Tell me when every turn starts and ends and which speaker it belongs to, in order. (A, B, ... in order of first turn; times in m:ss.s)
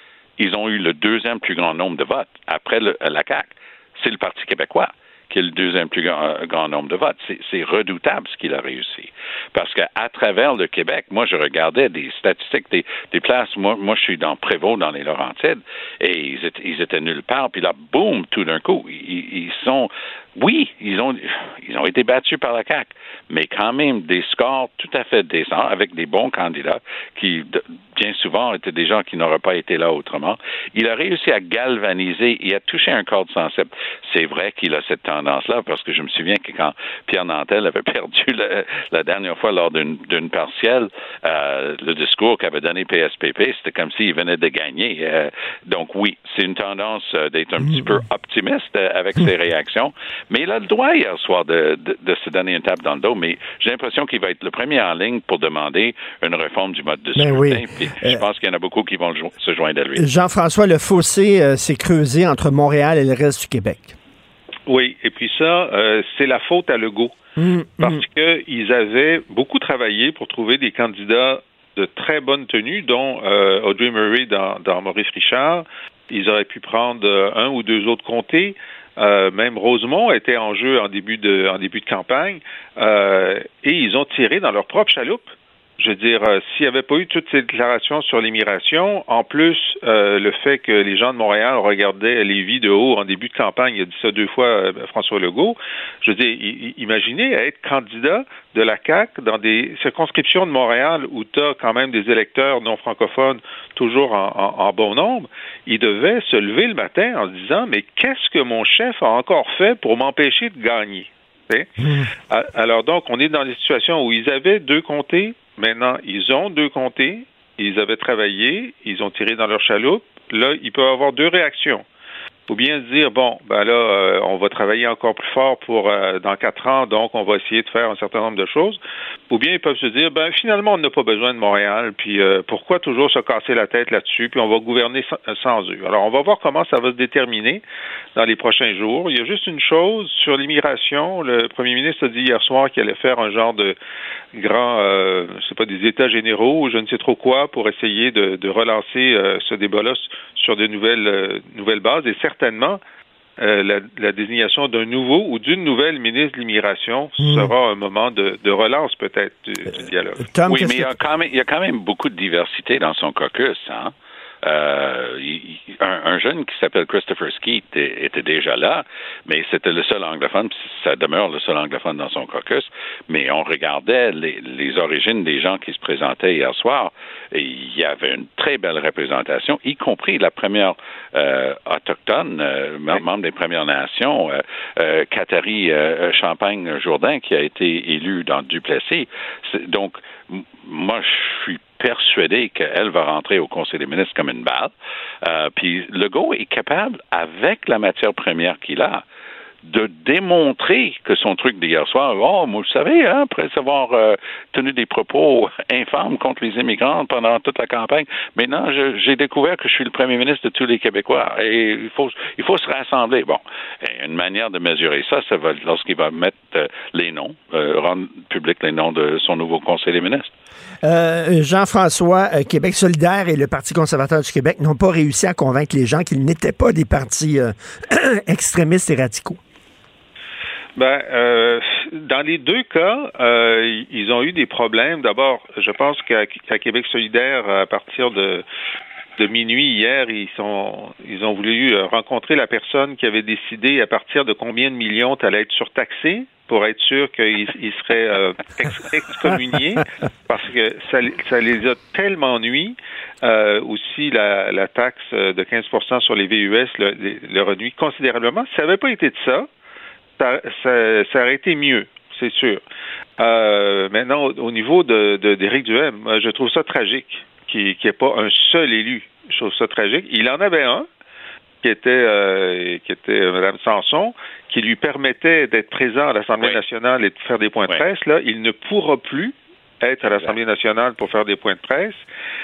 0:00.4-1:00.0 A
0:57.2-0:58.2 B
1:00.0-1:04.0 B
1:04.7-1:07.2 C
1:07.4-1:08.0 B
1:07.8-1:51.7 C
1:51.8-1:52.1 B
1:52.3-2:01.8 C
2:02.5-2:08.8 C
2:09.3-2:17.6 C
2:18.2-2:23.8 C
2:24.3-2:32.8 C
2:33.4-2:40.3 C
2:37.2-2:37.5 B
2:40.3-2:40.9 B
2:40.5-3:19.0 A
3:19.6-3:40.3 A
3:40.8-3:49.4 B
3:50.8-3:58.4 C
3:59.2-4:19.5 C
4:20.2-4:22.6 C
4:23.2-4:30.9 C
4:31.6-4:42.0 C
4:40.1-4:40.4 A